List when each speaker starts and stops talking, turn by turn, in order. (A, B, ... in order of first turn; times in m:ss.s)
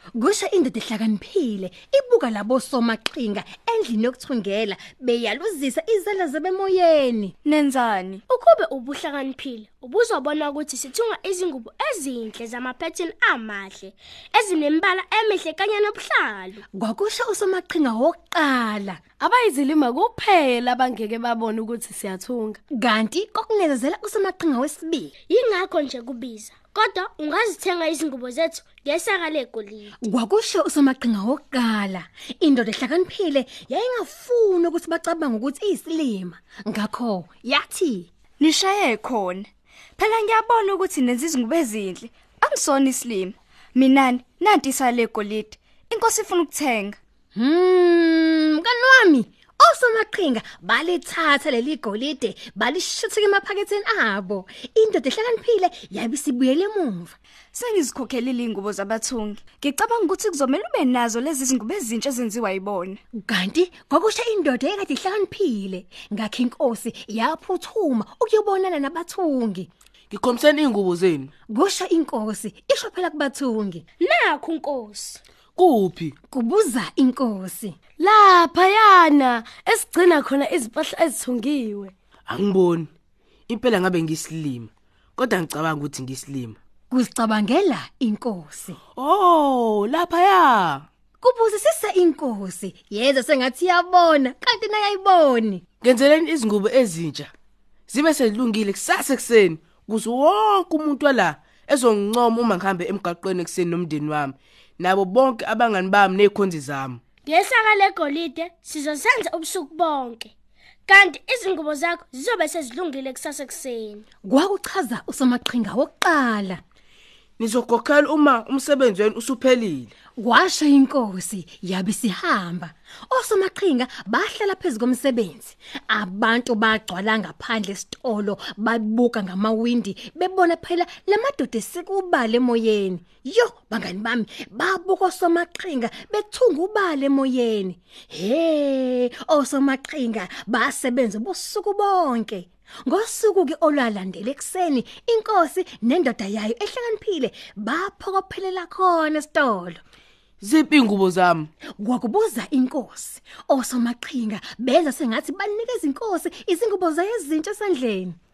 0:00.2-0:07.3 A
0:07.4-0:08.2 B
0:08.3-0:16.6 C
0:16.7-0:19.0 A
0:19.2-0:22.6 D
0:22.7-0:25.1 A
0:25.3-0:30.0 C
0:30.0-0:38.1 A
0:38.4-0:39.5 B
0:40.0-0:47.0 B
0:47.3-0:57.1 A
0:57.5-1:03.0 B
1:03.1-1:09.7 A
1:10.1-1:11.3 E
1:11.5-1:13.8 A
1:14.0-1:15.2 C
1:15.6-1:16.1 E
1:16.3-1:17.8 A
1:18.0-1:21.9 D
1:22.3-1:22.9 E
1:23.5-1:26.6 E
1:26.9-1:28.8 A
1:29.0-1:30.8 E
1:31.2-1:35.6 A
1:35.8-1:37.3 E
1:37.9-1:47.0 E
1:47.2-1:50.3 C
1:50.9-1:54.0 C
1:54.2-1:56.6 A
1:57.4-1:59.9 E
2:00.2-2:29.8 A
2:30.4-2:31.5 E
2:31.8-2:38.2 A